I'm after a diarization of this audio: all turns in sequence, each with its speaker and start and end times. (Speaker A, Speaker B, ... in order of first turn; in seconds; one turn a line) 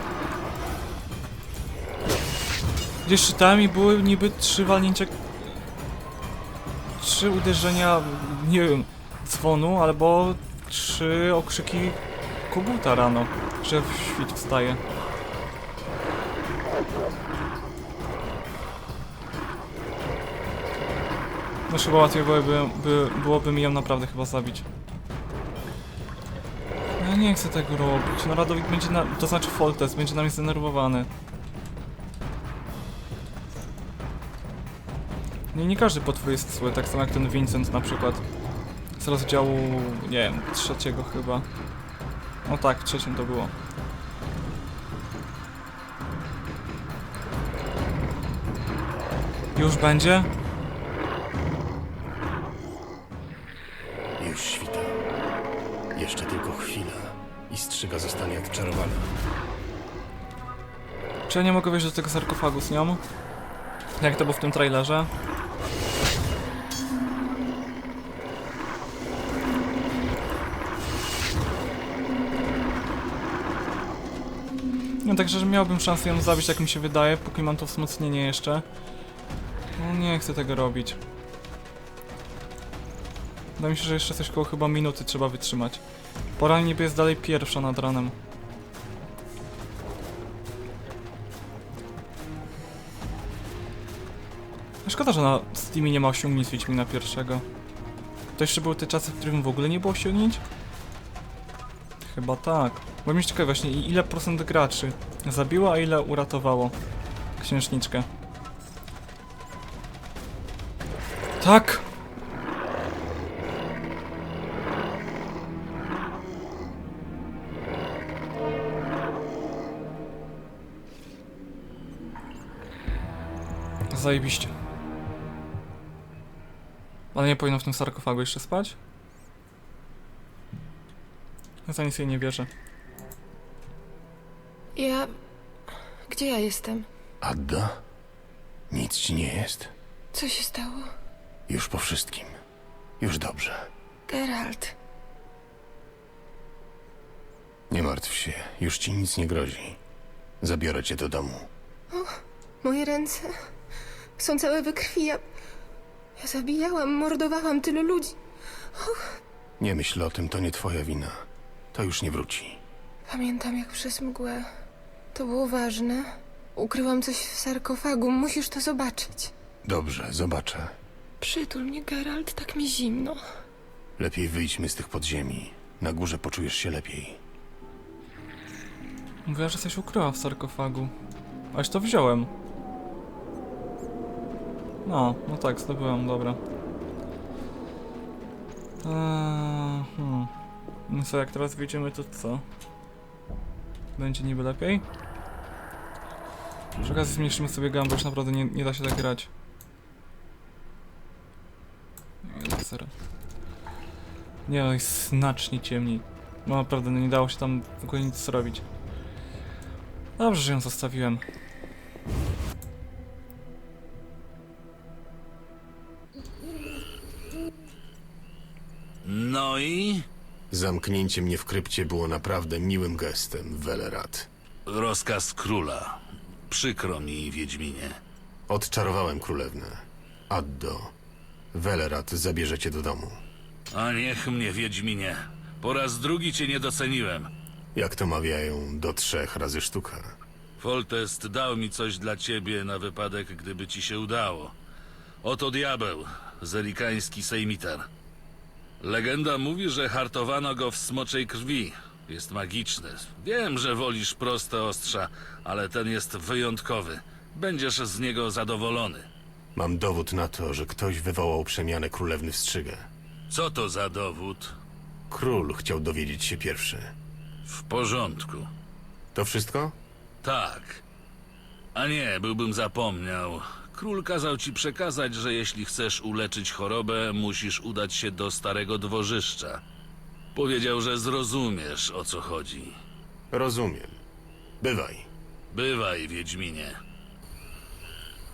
Speaker A: 3.0-5.2
Speaker A: 7.0-12.0
Speaker A: 12.5-14.8
Speaker A: 21.7-24.6
Speaker A: 27.0-31.1
Speaker A: 35.5-38.2
Speaker A: 39.0-41.5
Speaker A: 42.5-43.5
Speaker A: 49.5-50.3
Speaker B: 54.2-55.0
Speaker B: 55.9-59.1
Speaker A: 61.3-63.0
Speaker A: 64.0-65.1
Speaker A: 75.0-78.6
Speaker A: 79.8-81.0
Speaker A: 83.6-85.8
Speaker A: 86.4-88.2
Speaker A: 94.8-97.4
Speaker A: 98.3-100.4
Speaker A: 102.0-106.7
Speaker A: 107.4-108.1
Speaker A: 111.4-111.8
Speaker A: 123.9-124.5
Speaker A: 127.1-128.8
Speaker A: 131.7-132.5
Speaker C: 134.8-135.1
Speaker C: 136.1-136.9
Speaker B: 137.2-137.8
Speaker B: 138.7-139.7
Speaker C: 140.1-140.9
Speaker B: 141.5-142.3
Speaker B: 143.0-143.7
Speaker C: 144.1-144.8
Speaker B: 147.7-149.8
Speaker B: 150.4-151.5
Speaker C: 151.9-153.4
Speaker C: 154.2-155.2
Speaker C: 156.2-158.2
Speaker C: 158.7-159.2
Speaker B: 159.6-162.6
Speaker C: 163.1-164.5
Speaker C: 165.1-169.3
Speaker B: 169.6-170.7
Speaker C: 171.2-173.2
Speaker B: 174.0-177.2
Speaker A: 179.2-180.9
Speaker A: 181.5-182.3
Speaker A: 184.8-186.4
Speaker A: 188.8-190.3
Speaker A: 190.9-192.4
Speaker A: 194.0-194.8
Speaker A: 196.8-199.3
Speaker A: 202.2-202.9
Speaker A: 204.4-208.6
Speaker A: 210.2-211.2
Speaker D: 219.0-220.1
Speaker B: 220.5-224.3
Speaker D: 224.7-228.0
Speaker B: 228.5-230.9
Speaker B: 231.5-233.2
Speaker D: 233.7-237.3
Speaker B: 237.7-240.1
Speaker D: 240.6-244.5
Speaker D: 245.2-247.9
Speaker D: 248.8-259.1
Speaker B: 259.5-262.9
Speaker D: 263.3-264.5
Speaker B: 265.1-266.9
Speaker D: 267.5-268.5
Speaker B: 269.1-269.7
Speaker D: 270.2-270.8
Speaker D: 271.7-279.6
Speaker D: 280.3-282.7
Speaker B: 283.3-284.0
Speaker B: 284.6-285.1
Speaker D: 285.5-286.8